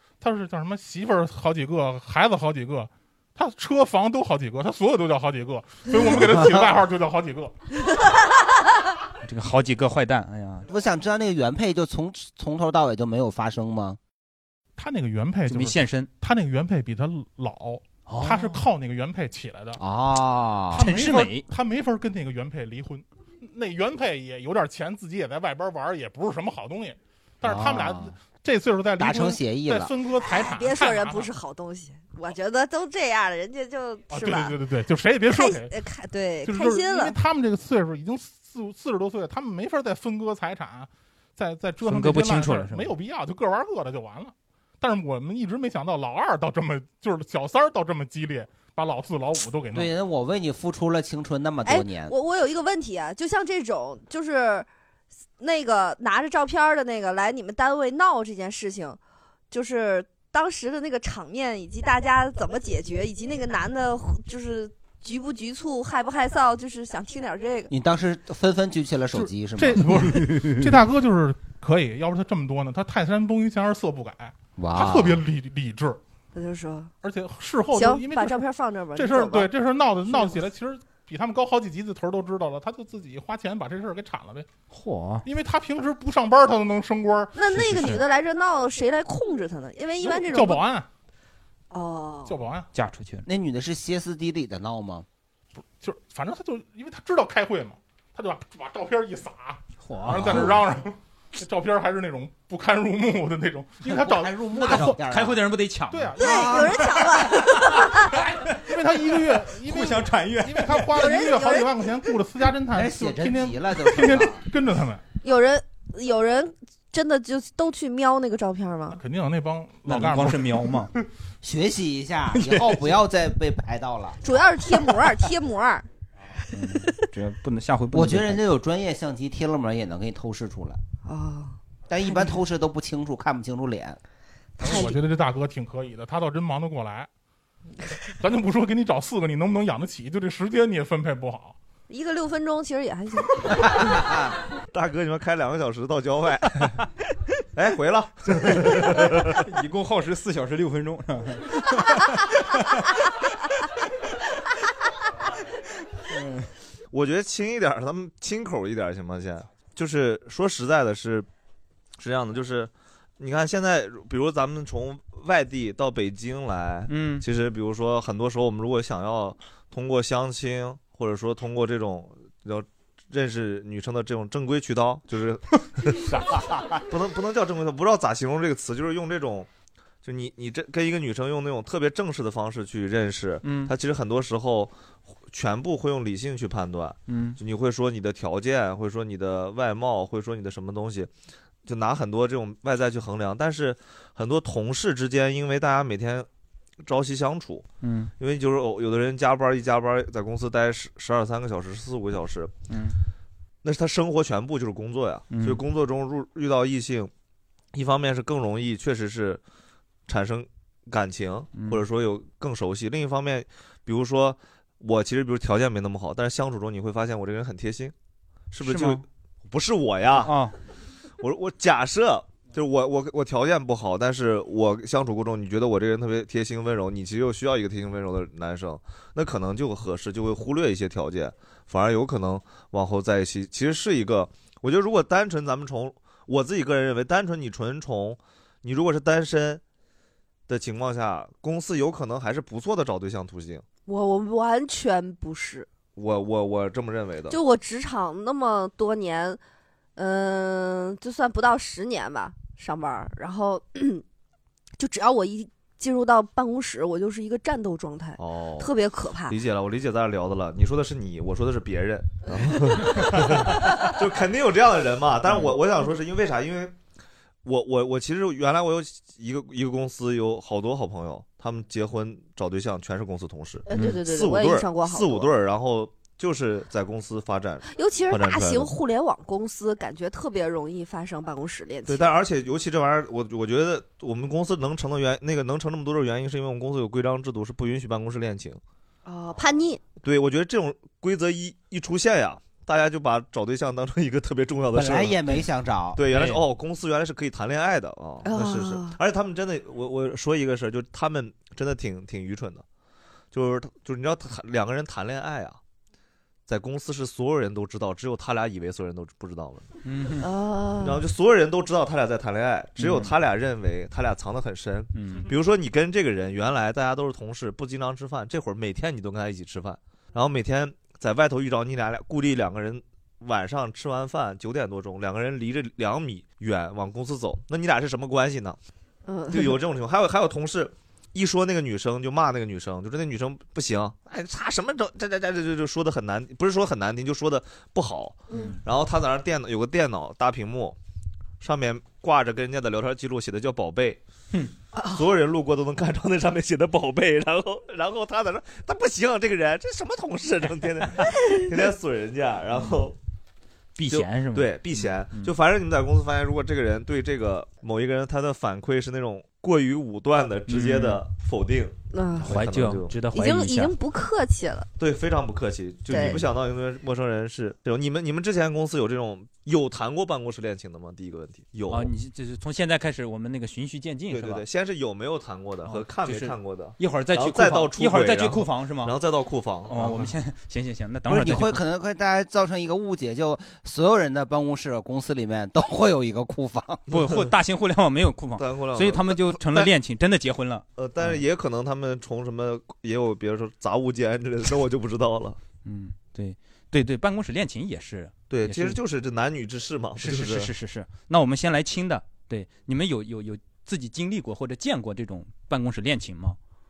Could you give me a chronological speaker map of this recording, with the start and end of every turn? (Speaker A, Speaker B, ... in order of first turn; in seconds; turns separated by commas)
Speaker A: 0.2-7.5, Speaker B: 6.0-6.7, Speaker C: 9.2-10.7, Speaker B: 10.7-14.0, Speaker A: 14.8-19.8, Speaker C: 15.5-16.1, Speaker C: 18.1-18.6, Speaker B: 19.8-20.9, Speaker A: 20.7-31.3, Speaker C: 20.8-21.4, Speaker B: 27.4-28.1, Speaker B: 29.0-29.9, Speaker D: 30.1-34.6, Speaker A: 34.1-35.7, Speaker D: 35.3-37.1, Speaker A: 36.4-49.9, Speaker C: 41.8-42.9, Speaker B: 49.7-52.1, Speaker D: 51.6-54.7, Speaker D: 55.4-59.0, Speaker D: 59.5-67.7, Speaker B: 67.7-70.0, Speaker A: 69.1-76.0, Speaker B: 74.6-75.2, Speaker D: 76.3-76.9, Speaker A: 77.0-78.4, Speaker D: 77.7-79.5, Speaker A: 78.9-84.5, Speaker D: 80.0-80.4, Speaker C: 84.7-85.2, Speaker A: 85.2-87.9, Speaker D: 87.3-90.6, Speaker C: 87.5-88.0, Speaker A: 90.0-90.9, Speaker D: 91.7-92.3, Speaker A: 92.3-92.7, Speaker C: 92.7-93.2, Speaker B: 93.2-95.0, Speaker A: 95.8-105.0, Speaker C: 99.8-100.5, Speaker B: 103.8-105.4, Speaker C: 104.9-106.2, Speaker A: 105.9-106.8, Speaker D: 106.2-108.1, Speaker B: 106.3-106.7, Speaker C: 107.3-110.9, Speaker A: 108.6-115.0, Speaker D: 110.9-111.7, Speaker B: 112.7-114.4, Speaker D: 115.2-119.0, Speaker A: 118.9-120.7, Speaker C: 119.8-120.9, Speaker B: 121.4-124.2, Speaker D: 124.2-125.8, Speaker C: 126.5-128.4, Speaker B: 127.9-130.8, Speaker D: 131.0-132.3, Speaker B: 131.9-134.0, Speaker A: 134.6-137.1, Speaker D: 134.6-134.9, Speaker A: 138.2-141.6, Speaker D: 141.9-144.0, Speaker E: 144.7-146.7, Speaker E: 147.5-149.4, Speaker C: 149.4-152.8, Speaker C: 156.1-156.5, Speaker E: 156.9-161.3, Speaker E: 162.0-176.3, Speaker C: 166.9-167.2, Speaker C: 176.1-176.6, Speaker E: 176.9-179.5, Speaker E: 180.0-184.7, Speaker C: 183.4-183.7, Speaker E: 185.3-191.1, Speaker C: 187.1-187.4, Speaker E: 191.6-196.3, Speaker E: 196.8-197.6, Speaker C: 197.8-198.1, Speaker E: 198.2-202.5, Speaker C: 202.7-203.0, Speaker E: 203.6-207.1, Speaker C: 205.3-205.6, Speaker E: 207.7-209.4, Speaker E: 210.1-217.9, Speaker C: 211.5-211.8, Speaker E: 218.5-220.3, Speaker C: 218.6-219.0, Speaker C: 220.2-220.5, Speaker E: 221.2-239.6, Speaker E: 240.5-243.7, Speaker D: 243.8-245.7, Speaker E: 245.9-247.4, Speaker D: 247.3-249.4, Speaker D: 249.9-254.0, Speaker D: 254.8-259.3, Speaker E: 258.2-258.7, Speaker E: 259.3-266.7, Speaker E: 267.4-278.7, Speaker D: 273.6-275.3, Speaker C: 273.7-274.0, Speaker D: 277.7-282.1, Speaker E: 281.9-288.6, Speaker D: 289.1-289.8, Speaker E: 290.0-302.6, Speaker B: 294.7-296.0, Speaker C: 296.1-296.4, Speaker D: 298.2-299.0, Speaker E: 303.3-305.6, Speaker E: 306.5-309.7, Speaker C: 309.8-310.3, Speaker D: 310.2-311.0, Speaker E: 310.8-328.6, Speaker C: 312.8-313.1, Speaker C: 314.9-315.3, Speaker D: 329.1-329.6, Speaker E: 329.3-340.8, Speaker E: 341.4-344.0, Speaker E: 344.9-352.9, Speaker C: 353.8-355.3, Speaker E: 353.9-363.0, Speaker C: 360.5-361.0, Speaker D: 361.9-362.4, Speaker C: 362.2-363.7, Speaker D: 363.1-364.7, Speaker E: 364.8-371.9, Speaker D: 365.9-366.3, Speaker C: 371.7-374.4, Speaker E: 374.1-380.0, Speaker C: 375.6-379.0, Speaker C: 379.7-381.6, Speaker B: 381.1-386.8, Speaker C: 386.9-391.2, Speaker E: 387.0-387.3, Speaker E: 388.4-389.7, Speaker E: 390.8-395.4, Speaker C: 395.6-398.8, Speaker E: 398.3-400.5, Speaker C: 399.9-406.4